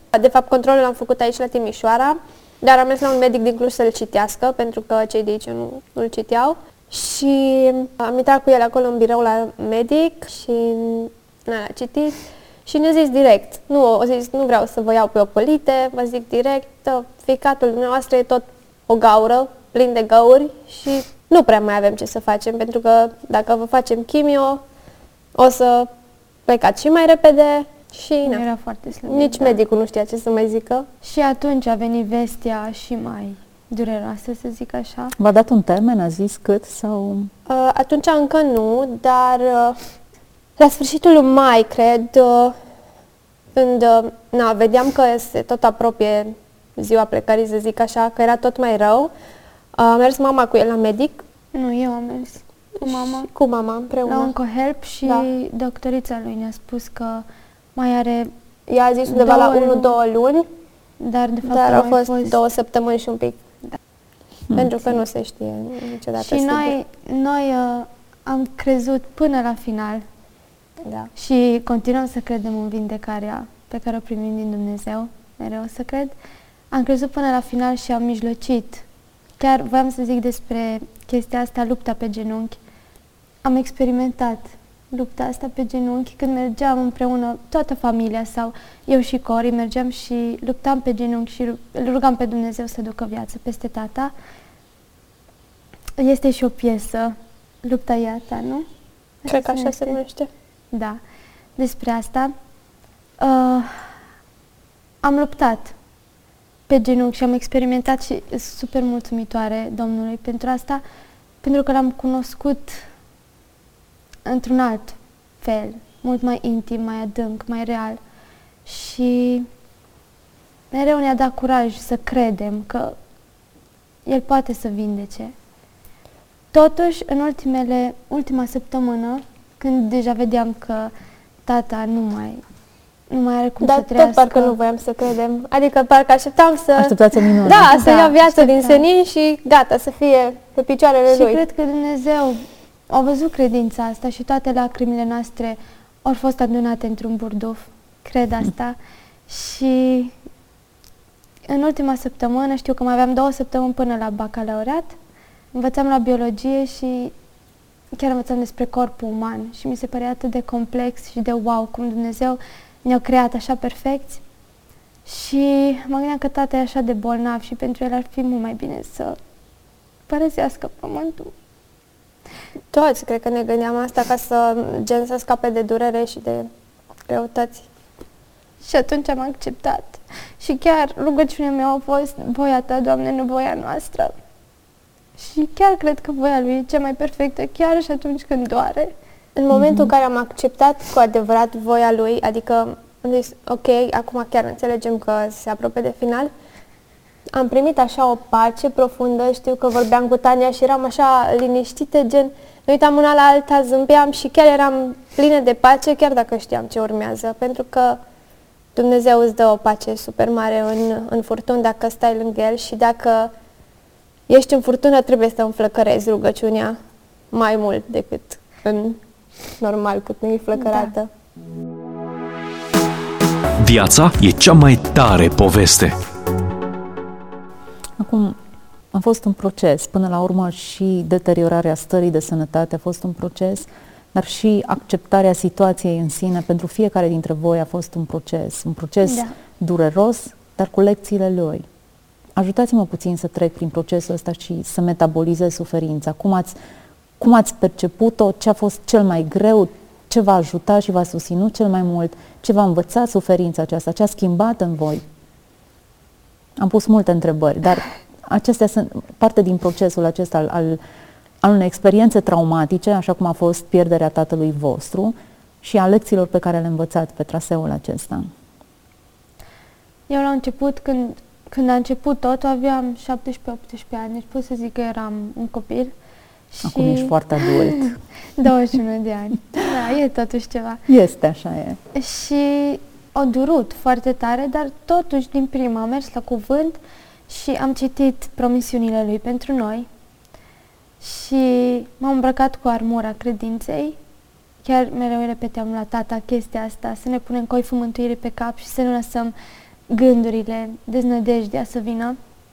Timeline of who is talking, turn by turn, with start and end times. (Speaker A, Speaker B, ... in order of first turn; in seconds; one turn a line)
Speaker A: 0.1-24.6
Speaker A: 25.4-25.9
Speaker A: 26.5-28.4
Speaker B: 28.2-29.6
Speaker A: 29.1-30.9
Speaker B: 31.0-35.1
Speaker C: 35.2-37.3
Speaker A: 37.5-39.9
Speaker A: 40.6-42.6
Speaker A: 43.5-49.1
Speaker A: 49.8-51.2
Speaker B: 51.5-53.3
Speaker A: 52.8-54.3
Speaker B: 54.1-57.2
Speaker B: 57.8-58.3
Speaker A: 58.7-60.5
Speaker B: 59.1-59.9
Speaker B: 61.0-62.4
Speaker A: 61.5-63.4
Speaker A: 64.5-66.8
Speaker B: 66.2-70.0
Speaker A: 70.8-71.1
Speaker B: 71.2-76.1
Speaker B: 76.7-78.8
Speaker B: 79.4-82.6
Speaker B: 83.4-94.1
Speaker B: 96.0-98.7
Speaker B: 99.2-100.0
Speaker A: 99.3-100.3
Speaker B: 100.7-101.0
Speaker B: 101.6-102.3
Speaker B: 103.2-104.0
Speaker B: 105.0-105.7
Speaker B: 106.7-110.8
Speaker B: 111.4-112.9
Speaker B: 114.2-118.0
Speaker B: 118.7-119.5
Speaker B: 120.7-123.0
Speaker B: 124.1-125.3
Speaker B: 126.5-130.9
Speaker B: 131.5-132.4
Speaker B: 133.1-134.6
Speaker A: 133.6-141.4
Speaker C: 136.8-137.7
Speaker B: 137.6-138.8
Speaker B: 141.1-148.8
Speaker B: 149.3-150.1
Speaker B: 151.5-155.0
Speaker B: 155.5-157.1
Speaker B: 157.9-164.2
Speaker B: 165.1-169.2
Speaker B: 170.1-171.3
Speaker A: 172.7-176.5
Speaker A: 177.1-177.7
Speaker B: 178.6-184.1
Speaker B: 185.2-188.9
Speaker A: 189.4-196.3
Speaker C: 189.5-189.9
Speaker A: 197.3-208.0
Speaker A: 208.8-213.3
Speaker A: 214.3-216.8
Speaker A: 217.3-219.0
Speaker A: 219.6-221.1
Speaker B: 220.6-220.9
Speaker D: 223.6-226.0
Speaker C: 228.0-228.4
Speaker C: 228.9-241.7
Speaker B: 239.0-239.3
Speaker C: 242.3-246.6
Speaker C: 247.2-255.0
Speaker C: 256.6-260.8
Speaker C: 261.4-268.3
Speaker B: 270.1-275.9
Speaker B: 276.5-280.8
Speaker C: 276.6-278.0
Speaker C: 280.9-281.8
Speaker B: 281.9-289.9
Speaker B: 291.0-294.0
Speaker B: 294.6-299.3
Speaker B: 299.9-302.2